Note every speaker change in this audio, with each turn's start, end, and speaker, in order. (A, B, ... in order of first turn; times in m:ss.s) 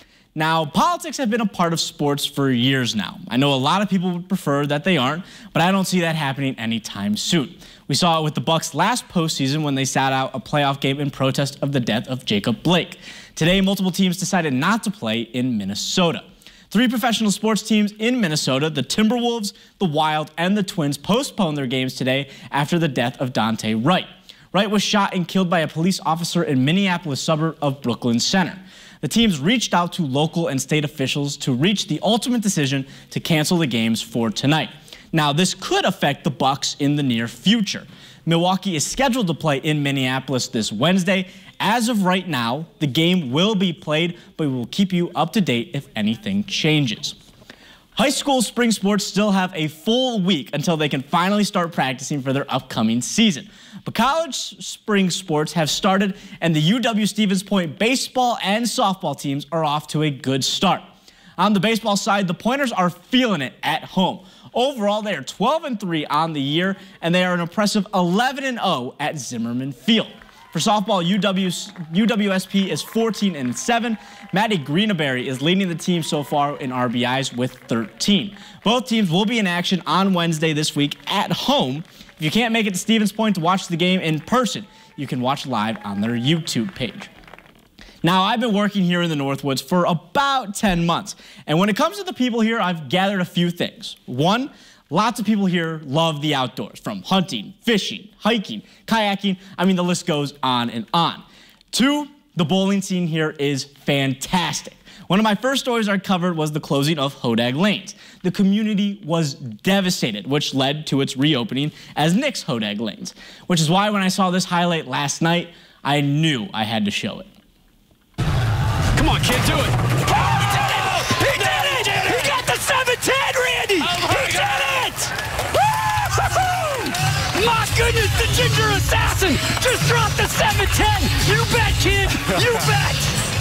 0:00.4-0:47.2 A
0:48.0-1:00.9 A
1:01.4-1:27.1 A
1:28.0-1:57.3 A
1:59.0-1:59.7 B
2:01.2-2:02.1 B
2:01.3-2:02.6 A
2:02.8-2:04.8 B
2:04.1-2:04.7 A
2:07.6-2:08.3 B
2:12.2-2:13.0 A